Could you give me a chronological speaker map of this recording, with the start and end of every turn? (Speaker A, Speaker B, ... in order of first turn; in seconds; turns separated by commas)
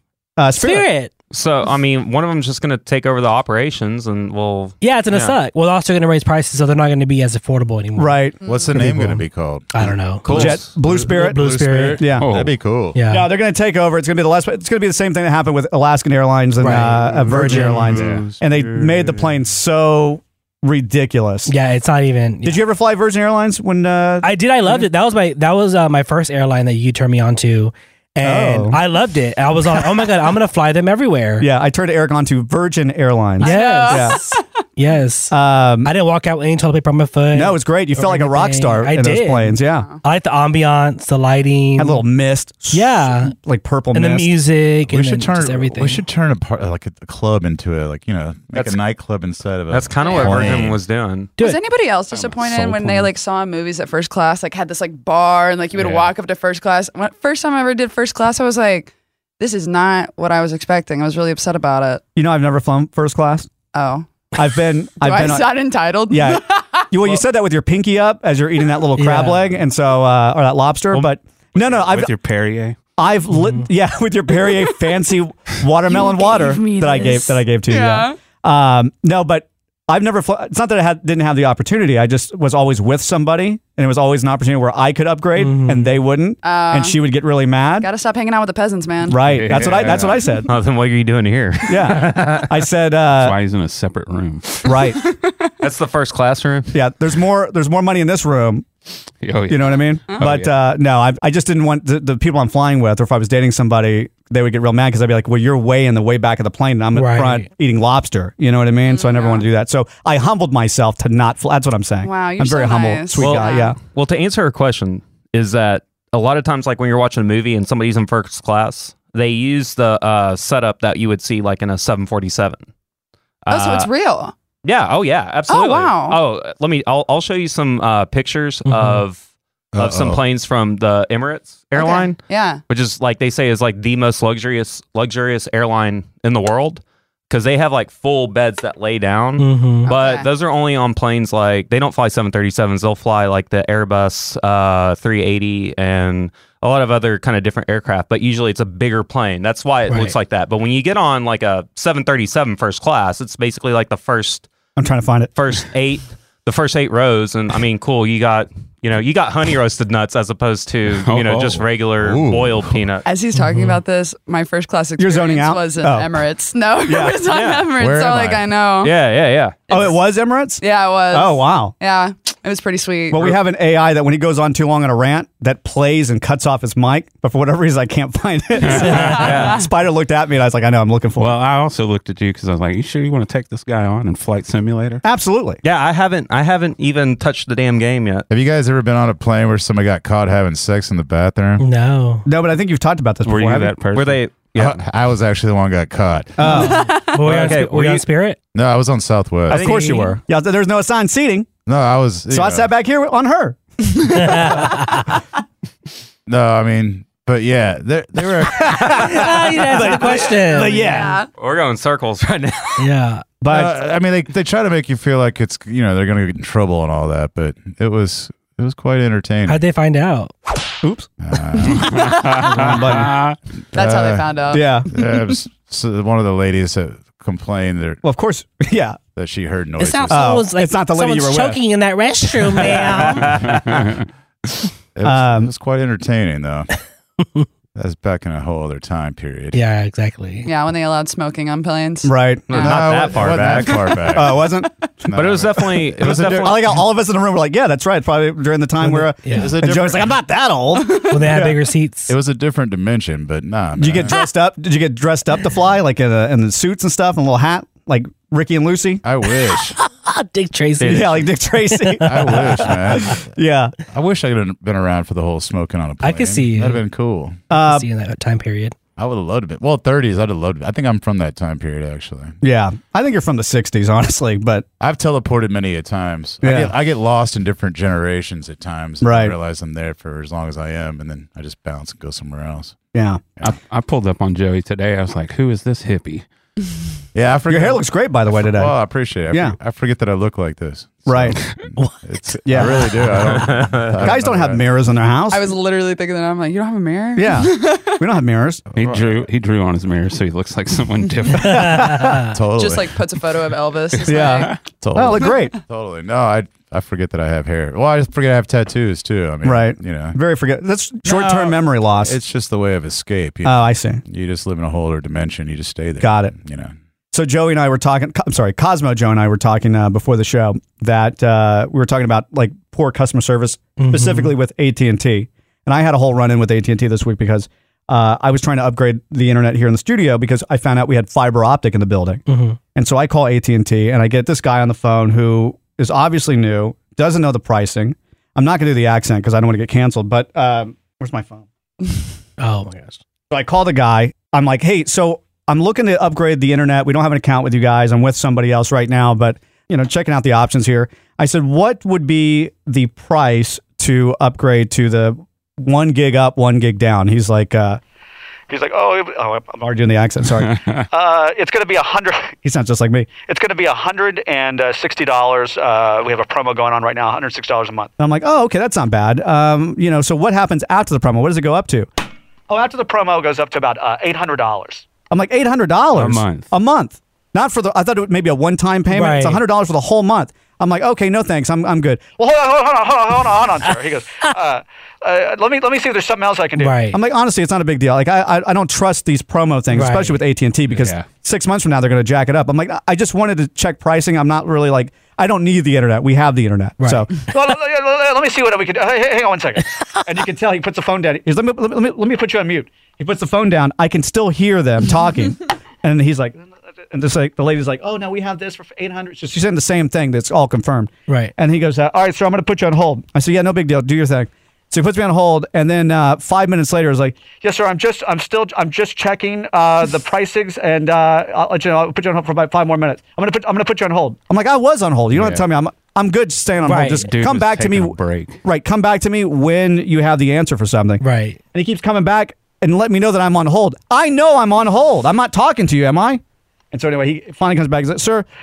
Speaker A: 0.4-0.9, Speaker B: 0.6-1.1, Speaker C: 1.3-5.4, Speaker B: 4.8-8.2, Speaker A: 8.0-8.4, Speaker D: 8.4-13.0, Speaker E: 8.4-8.8, Speaker B: 8.8-9.2, Speaker B: 9.7-12.0, Speaker C: 10.2-10.7, Speaker A: 10.3-12.3, Speaker F: 12.1-12.6, Speaker B: 12.9-13.3, Speaker A: 13.1-21.5, Speaker B: 16.6-17.9, Speaker D: 17.8-18.4, Speaker F: 17.8-18.4, Speaker B: 21.5-22.6, Speaker A: 22.4-24.8, Speaker B: 24.2-31.5, Speaker A: 28.2-28.8, Speaker A: 31.4-34.2, Speaker E: 33.4-34.4, Speaker B: 33.4-42.0, Speaker A: 35.3-35.9, Speaker A: 37.3-39.9, Speaker A: 41.8-44.3, Speaker B: 42.7-43.3, Speaker B: 43.9-46.0, Speaker D: 44.9-50.8, Speaker C: 49.7-51.3, Speaker E: 50.0-50.6, Speaker E: 51.4-62.0, Speaker F: 52.1-53.1, Speaker A: 62.2-63.5, Speaker E: 63.7-64.1, Speaker A: 64.3-65.5, Speaker E: 65.0-66.9, Speaker A: 66.1-72.1, Speaker B: 69.0-69.5, Speaker F: 70.9-72.8, Speaker A: 73.0-87.9, Speaker B: 73.3-73.7, Speaker E: 75.9-78.2, Speaker B: 85.4-85.9, Speaker E: 86.4-87.0, Speaker E: 87.8-90.0, Speaker A: 89.1-90.5, Speaker F: 89.2-90.4, Speaker C: 90.5-92.5, Speaker A: 91.7-93.4, Speaker F: 93.2-94.8, Speaker A: 94.7-95.0, Speaker E: 95.0-95.5, Speaker C: 95.6-96.7, Speaker A: 96.7-98.7, Speaker F: 99.2-100.5, Speaker A: 99.5-113.8, Speaker B: 106.9-107.5, Speaker E: 108.8-109.5, Speaker E: 112.0-113.7, Speaker C: 113.2-122.7, Speaker C: 123.5-123.9, Speaker E: 123.5-124.3, Speaker C: 124.6-129.2, Speaker E: 125.5-126.2, Speaker B: 128.7-129.0, Speaker D: 129.7-130.2, Speaker C: 129.8-154.5, Speaker E: 131.8-132.6, Speaker B: 139.4-139.9, Speaker E: 139.9-140.3, Speaker B: 149.9-150.2, Speaker A: 154.8-155.3, Speaker C: 155.3-163.1, Speaker F: 160.9-161.7, Speaker D: 162.0-162.8, Speaker E: 163.1-168.9, Speaker B: 163.3-163.8, Speaker A: 165.0-166.1, Speaker A: 166.8-167.2, Speaker C: 167.3-167.7, Speaker D: 167.8-168.5, Speaker C: 168.8-169.6, Speaker E: 169.7-169.9, Speaker A: 169.7-171.7, Speaker E: 170.6-173.4, Speaker A: 173.1-181.4, Speaker F: 178.7-179.3, Speaker E: 178.7-179.6, Speaker C: 179.2-179.6, Speaker F: 181.2-185.0, Speaker A: 185.0-185.6, Speaker C: 185.6-188.3, Speaker D: 188.3-191.6, Speaker B: 191.6-192.2, Speaker A: 192.3-193.8, Speaker F: 193.2-194.4, Speaker C: 193.9-194.8, Speaker D: 194.6-196.4, Speaker A: 196.4-196.9, Speaker B: 196.4-198.4, Speaker E: 196.7-197.0, Speaker C: 197.2-198.1, Speaker D: 198.5-199.8, Speaker C: 199.5-200.1, Speaker A: 199.5-201.5, Speaker D: 201.7-202.7, Speaker A: 202.3-203.6, Speaker B: 204.2-205.0, Speaker D: 206.3-209.3, Speaker A: 208.6-211.2, Speaker B: 208.9-211.1, Speaker E: 210.5-211.3, Speaker C: 211.4-212.8, Speaker B: 212.8-213.2, Speaker A: 213.4-213.7, Speaker D: 213.5-219.6, Speaker B: 219.5-220.3, Speaker A: 220.8-221.1, Speaker D: 221.2-222.3, Speaker F: 221.9-223.4, Speaker A: 222.4-223.2, Speaker D: 223.7-228.0, Speaker E: 223.7-224.7, Speaker A: 224.5-224.9, Speaker A: 228.0-229.0, Speaker D: 229.1-230.4, Speaker B: 229.8-233.4, Speaker A: 230.1-231.6, Speaker F: 233.3-234.0, Speaker D: 234.9-236.7, Speaker A: 235.0-235.5, Speaker D: 237.8-239.6, Speaker B: 239.5-240.5, Speaker E: 240.4-242.8, Speaker A: 242.0-242.5, Speaker C: 242.5-244.0, Speaker D: 242.6-246.6, Speaker A: 244.1-244.7, Speaker C: 245.1-246.7, Speaker A: 246.0-251.6, Speaker B: 248.8-249.5, Speaker D: 249.3-250.2, Speaker B: 251.1-252.1, Speaker D: 252.1-254.2, Speaker A: 253.8-259.0, Speaker D: 259.0-259.8, Speaker B: 259.8-262.7, Speaker C: 260.8-261.1, Speaker A: 260.8-263.8, Speaker D: 262.0-263.3, Speaker D: 263.9-267.4, Speaker B: 266.0-266.8, Speaker A: 267.5-267.9, Speaker B: 267.5-268.8, Speaker D: 269.0-272.4, Speaker A: 272.4-274.6, Speaker D: 274.8-282.8, Speaker A: 276.4-276.7, Speaker A: 279.0-279.4, Speaker A: 282.9-283.2, Speaker F: 283.4-286.3, Speaker D: 287.1-294.6, Speaker A: 287.5-288.8, Speaker A: 289.3-289.6, Speaker A: 291.1-291.4, Speaker A: 292.4-293.0, Speaker B: 292.5-292.8, Speaker C: 293.4-294.0, Speaker A: 294.0-295.5, Speaker E: 295.3-298.0, Speaker A: 297.2-298.6, Speaker D: 298.7-299.3, Speaker F: 298.8-301.9, Speaker B: 301.4-302.3, Speaker A: 301.7-302.1, Speaker D: 302.3-303.0, Speaker E: 302.6-304.6, Speaker A: 304.1-305.6, Speaker F: 304.3-304.6, Speaker D: 304.7-310.2, Speaker A: 309.4-312.2, Speaker D: 311.1-316.7, Speaker A: 313.4-314.0, Speaker A: 316.0-316.4, Speaker A: 317.1-332.2, Speaker B: 323.8-324.4, Speaker B: 332.3-332.6, Speaker A: 332.8-341.4, Speaker B: 342.4-343.0, Speaker A: 343.3-357.8, Speaker G: 358.5-359.6, Speaker A: 359.5-360.6, Speaker F: 360.4-360.9, Speaker G: 360.9-362.4, Speaker A: 362.4-363.3, Speaker G: 363.1-367.9, Speaker A: 367.9-371.9, Speaker G: 372.5-374.9, Speaker A: 375.1-382.2, Speaker F: 375.9-376.5, Speaker B: 378.9-379.4, Speaker G: 382.1-386.7, Speaker B: 386.6-387.0, Speaker A: 386.8-397.5, Speaker B: 389.7-390.2, Speaker F: 390.7-391.1, Speaker B: 396.8-397.1, Speaker G: 397.3-399.6, Speaker A: 400.1-406.4, Speaker A: 406.9-417.2, Speaker G: 408.3-409.1, Speaker B: 411.1-411.3, Speaker G: 417.2-423.9, Speaker A: 421.1-431.0, Speaker F: 425.1-425.5, Speaker B: 426.6-427.1, Speaker F: 426.8-428.4, Speaker B: 431.0-431.4, Speaker A: 431.5-436.2, Speaker A: 436.7-438.3